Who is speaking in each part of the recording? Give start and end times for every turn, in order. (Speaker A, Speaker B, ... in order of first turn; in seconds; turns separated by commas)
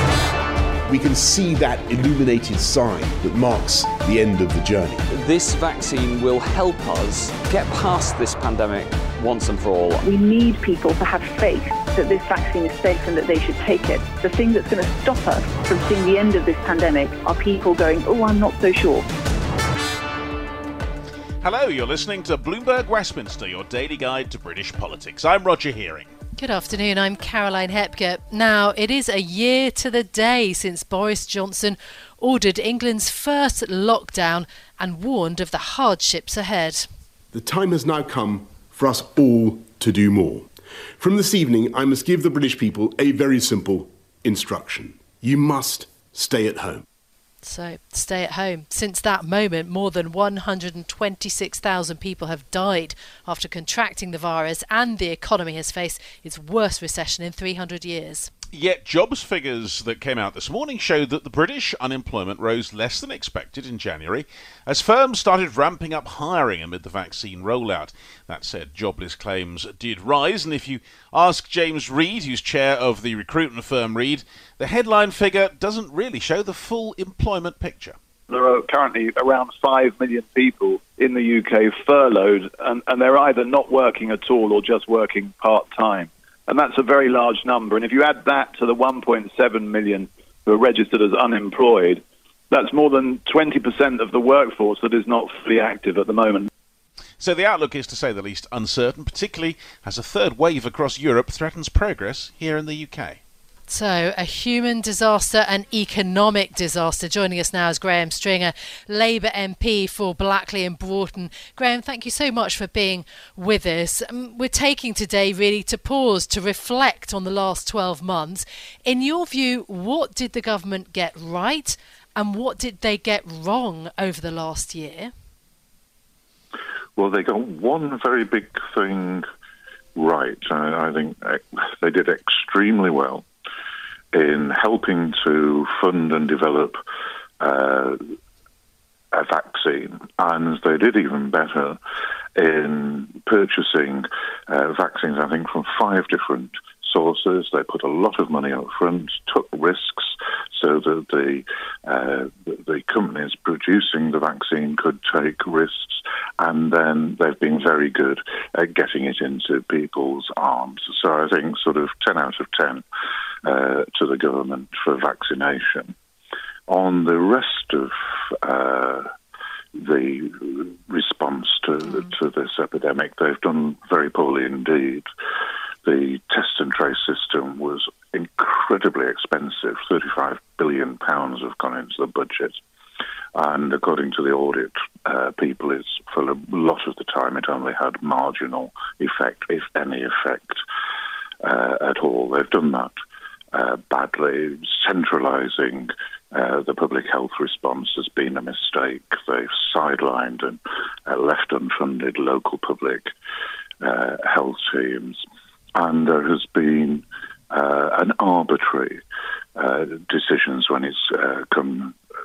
Speaker A: 0.9-5.0, Speaker B: 5.1-10.0, Speaker C: 10.0-19.1, Speaker D: 21.4-26.1, Speaker E: 26.4-36.9, Speaker A: 37.3-46.9, Speaker E: 47.4-58.3, Speaker D: 58.5-78.0, Speaker F: 78.3-96.5, Speaker D: 97.2-103.2, Speaker E: 103.7-125.1, Speaker G: 127.0-129.3, Speaker G: 129.9-133.2, Speaker G: 134.1-136.8, Speaker G: 137.4-138.1, Speaker G: 139.1-141.8, Speaker G: 142.3-162.8, Speaker G: 163.4-165.9, Speaker G: 166.7-169.1, Speaker G: 169.7-175.1, Speaker G: 175.8-182.6, Speaker G: 183.3-190.6, Speaker G: 191.4-192.9, Speaker G: 193.5-203.1, Speaker G: 203.8-205.2, Speaker G: 205.7-209.0, Speaker G: 209.6-212.0